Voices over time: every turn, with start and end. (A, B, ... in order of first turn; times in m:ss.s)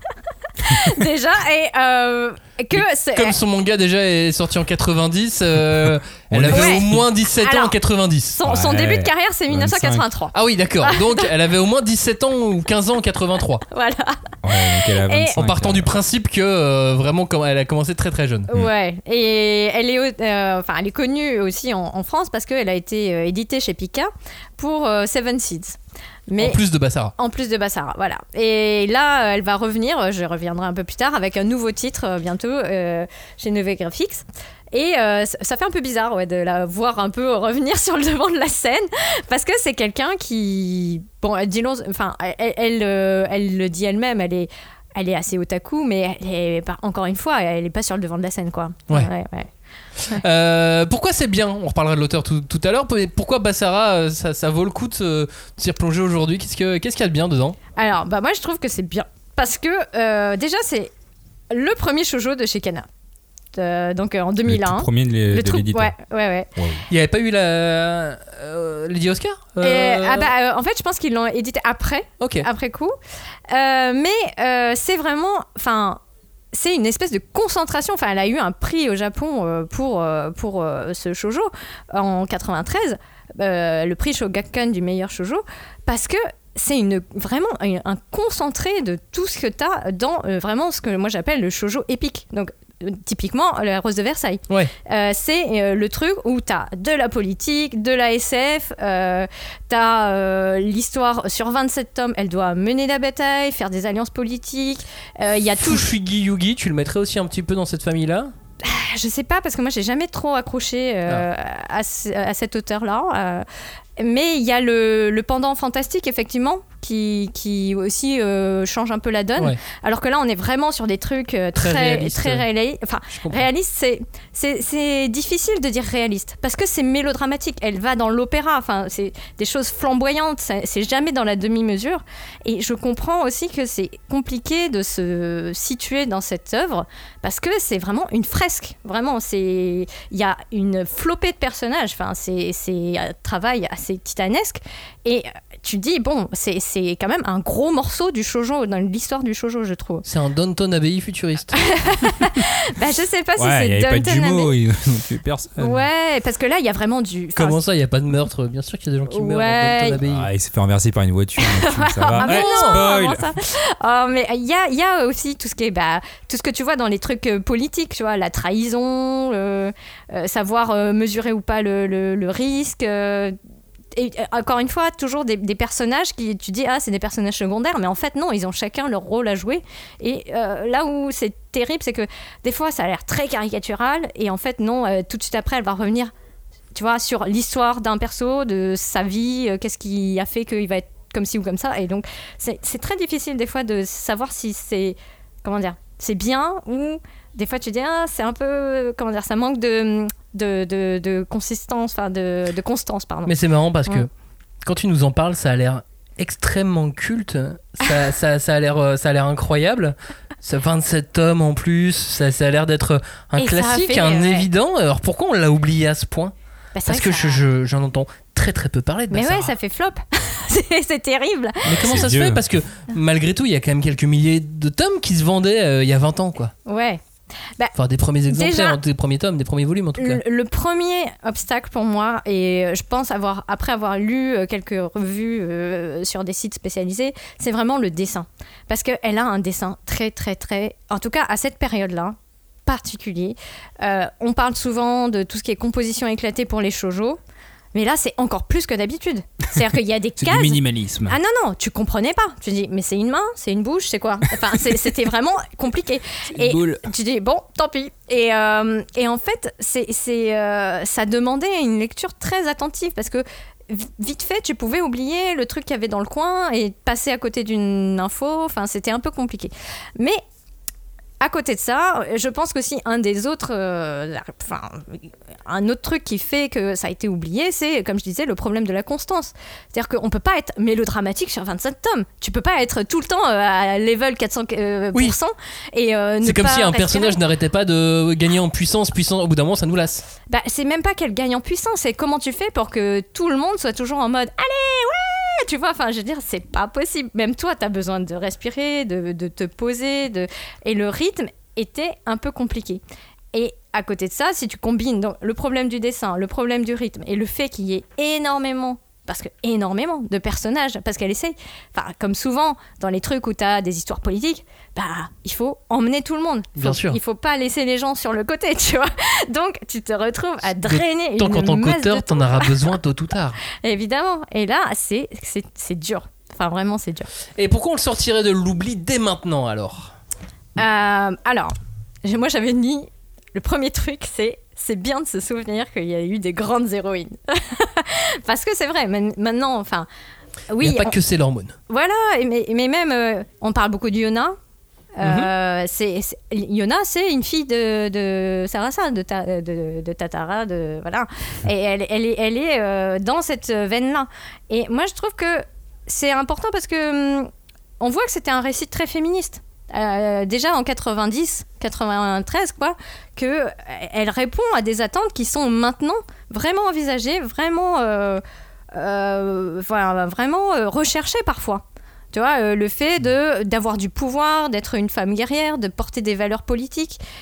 0:00.6-0:03.3 A
0:02.7-0:08.4 B
0:06.3-0:07.0 C
0:06.5-0:06.8 A
0:07.4-0:07.8 A
0:08.3-0:11.3 A
0:08.4-0:10.0 C
0:10.3-0:13.6 B
0:13.7-0:14.2 A
0:14.4-0:15.9 C
0:15.0-0:15.4 A
0:15.4-0:18.5 B
0:18.5-0:26.6 A
0:26.4-0:27.1 B
0:27.2-0:49.5 A
0:50.1-0:57.6 B
0:57.8-1:00.9 A
1:01.5-1:02.9 A
1:03.5-1:06.5 A
1:04.4-1:05.9 C
1:06.6-1:06.8 C
1:06.9-1:10.3 B
1:09.6-1:12.9 A
1:12.2-1:12.5 B
1:13.5-1:16.0 A
1:16.5-1:45.9 A
1:45.6-1:48.3 B
1:48.6-1:53.4 A
1:54.0-2:30.0 A
2:01.6-2:02.4 B
2:03.1-2:03.4 B
2:30.0-2:31.7 B
2:31.6-2:34.5 A
2:33.4-2:35.8 C
2:35.6-2:37.6 A
2:37.4-2:40.3 B
2:39.1-2:40.0 A
2:40.0-2:43.3 C
2:41.4-2:53.4 A
2:42.2-2:42.9 B
2:53.9-3:06.1 A
3:06.7-3:23.3 A
3:23.3-3:24.1 B
3:24.6-3:36.3 B
3:33.4-3:34.5 A
3:36.7-3:37.4 A
3:36.9-3:39.5 B
3:39.1-3:41.7 A
3:41.6-3:46.5 B
3:41.6-3:42.4 C
3:46.6-3:47.0 A
3:47.8-3:50.2 B
3:48.3-3:48.8 A
3:50.0-4:07.2 A
4:07.7-4:30.2 A
4:10.2-4:11.2 C
4:16.3-4:16.8 C
4:31.2-4:47.2 A
4:46.2-4:50.0 B
4:50.3-5:02.8 A
5:03.3-5:22.6 A
5:16.6-5:17.0 B
5:20.6-5:23.4 B
5:23.6-5:27.1 A
5:27.4-5:29.9 B
5:30.6-5:31.5 A
5:32.0-5:39.9 A
5:40.5-5:40.9 A
5:40.6-5:41.5 B
5:41.7-5:44.4 A
5:45.0-5:57.3 A
5:45.0-5:45.3 B
5:57.8-6:17.0 A